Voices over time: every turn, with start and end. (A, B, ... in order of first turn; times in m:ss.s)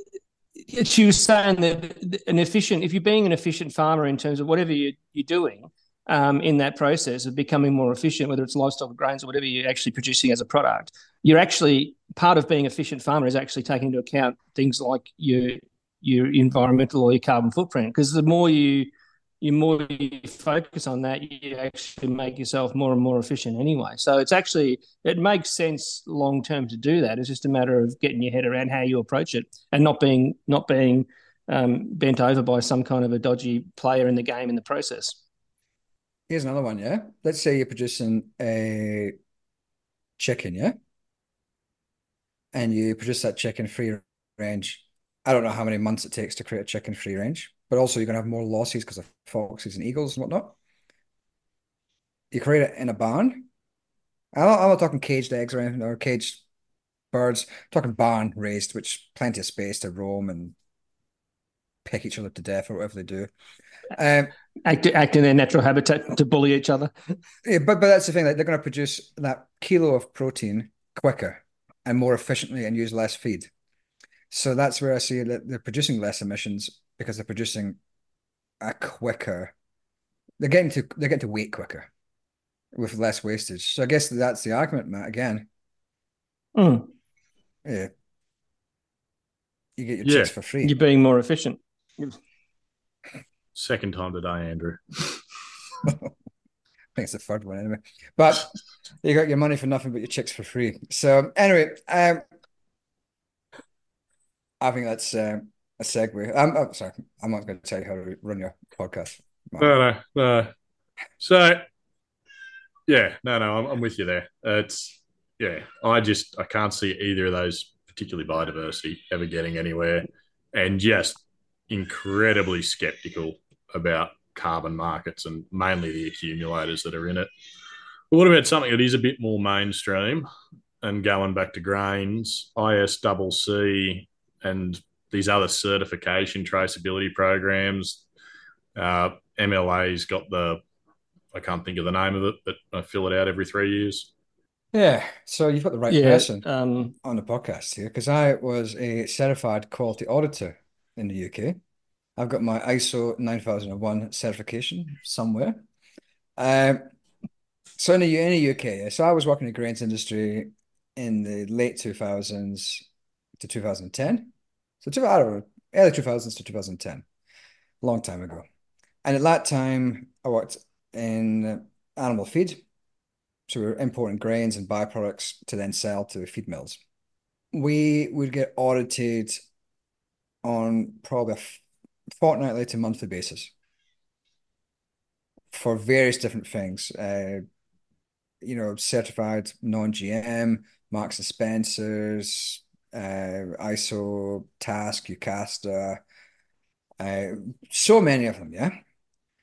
0:00.7-0:35.2 A
0:36.3-0:39.1 B
0:40.2-0:40.7 B
0:42.5-0:50.6 B
0:52.3-0:53.5 B
0:54.3-0:56.4 B
0:57.1-1:00.5 B
1:01.8-1:03.3 B
1:03.9-1:04.3 B
1:04.6-1:06.9 A
1:07.4-1:13.5 B
1:14.3-1:17.8 B
1:18.6-1:19.5 B
1:20.4-1:21.9 B
1:22.7-1:25.5 B
1:26.6-1:26.9 A
1:27.6-1:27.9 B
1:29.8-1:30.7 B
1:30.0-1:30.3 C
1:30.6-1:32.1 A
1:33.5-1:35.2 C
1:35.8-1:36.1 B
1:36.9-1:38.5 B
1:39.0-1:42.2 B
1:44.6-1:49.7 B
1:49.6-1:50.5 C
1:51.2-1:51.6 C
1:52.9-2:07.3 C
2:08.1-2:10.3 C
2:10.8-2:18.0 C
2:18.7-2:20.6 C
2:21.3-2:24.1 C
2:24.7-2:26.4 B
2:25.9-2:26.9 A
2:27.0-2:31.6 B
2:32.2-2:35.6 B
2:36.4-2:36.8 B
2:37.8-2:42.8 B
2:43.4-2:47.0 B
2:47.8-2:48.4 B
2:49.0-2:52.6 B
2:53.5-2:56.8 B
2:57.5-2:59.4 B
3:00.4-3:01.6 B
3:02.1-3:03.5 B
3:05.5-3:07.4 B
3:08.4-3:16.0 B
3:17.0-3:18.7 B